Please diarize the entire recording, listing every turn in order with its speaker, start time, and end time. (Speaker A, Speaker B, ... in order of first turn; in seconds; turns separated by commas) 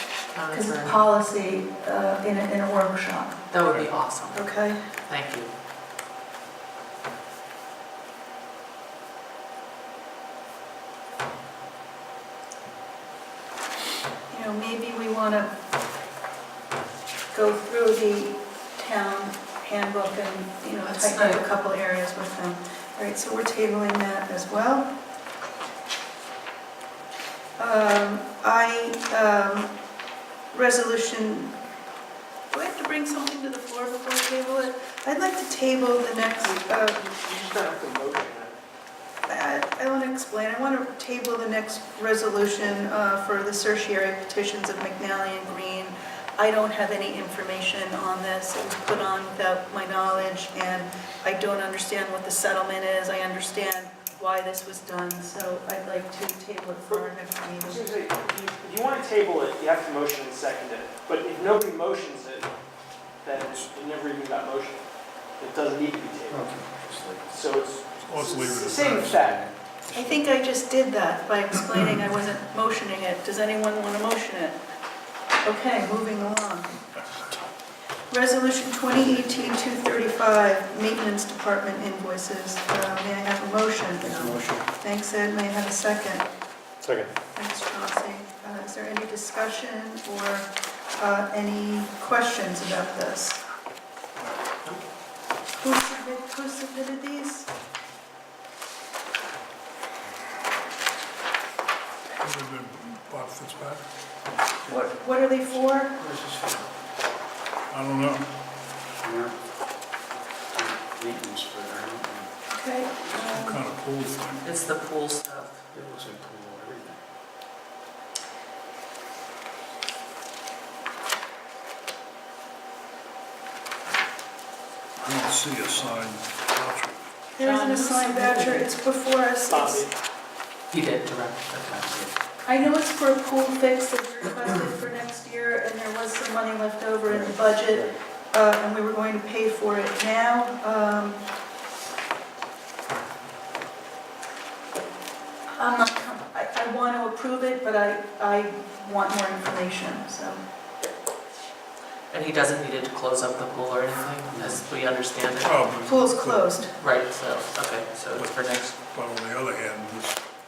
Speaker A: 0.3-1.0, Speaker B: 0.5-3.4, Speaker A: 3.5-4.4, Speaker B: 4.3-4.8, Speaker A: 5.1-5.5, Speaker B: 14.3-15.5, Speaker B: 17.3-24.9, Speaker A: 20.8-21.4, Speaker B: 27.6-29.7, Speaker B: 30.5-31.5, Speaker B: 32.5-37.0, Speaker C: 36.9-38.5, Speaker B: 39.3-57.9, Speaker C: 57.6-62.5, Speaker C: 63.2-64.8, Speaker D: 63.5-63.8, Speaker C: 65.4-66.5, Speaker E: 66.3-67.3, Speaker C: 67.3-69.5, Speaker D: 67.9-69.5, Speaker E: 69.9-70.2, Speaker B: 69.9-74.6, Speaker B: 75.4-76.8, Speaker B: 78.1-86.2, Speaker E: 84.0-84.7, Speaker A: 84.0-84.3, Speaker D: 86.8-87.1, Speaker B: 87.4-93.4, Speaker B: 95.6-97.5, Speaker D: 102.2-103.8, Speaker B: 104.7-106.0, Speaker E: 106.0-106.7, Speaker D: 107.7-108.2, Speaker E: 109.0-109.4, Speaker E: 110.5-112.3, Speaker B: 112.5-113.6, Speaker D: 113.3-114.4, Speaker A: 114.4-115.6, Speaker E: 115.7-117.0, Speaker D: 125.0-127.1, Speaker B: 127.4-129.9, Speaker A: 127.4-128.7, Speaker C: 129.5-129.9, Speaker A: 130.7-132.1, Speaker B: 132.5-141.2, Speaker E: 137.1-137.9, Speaker B: 145.6-150.4, Speaker A: 152.1-155.6, Speaker E: 154.3-154.6, Speaker D: 155.4-156.5, Speaker B: 155.8-156.7, Speaker A: 156.8-158.7, Speaker D: 158.2-160.2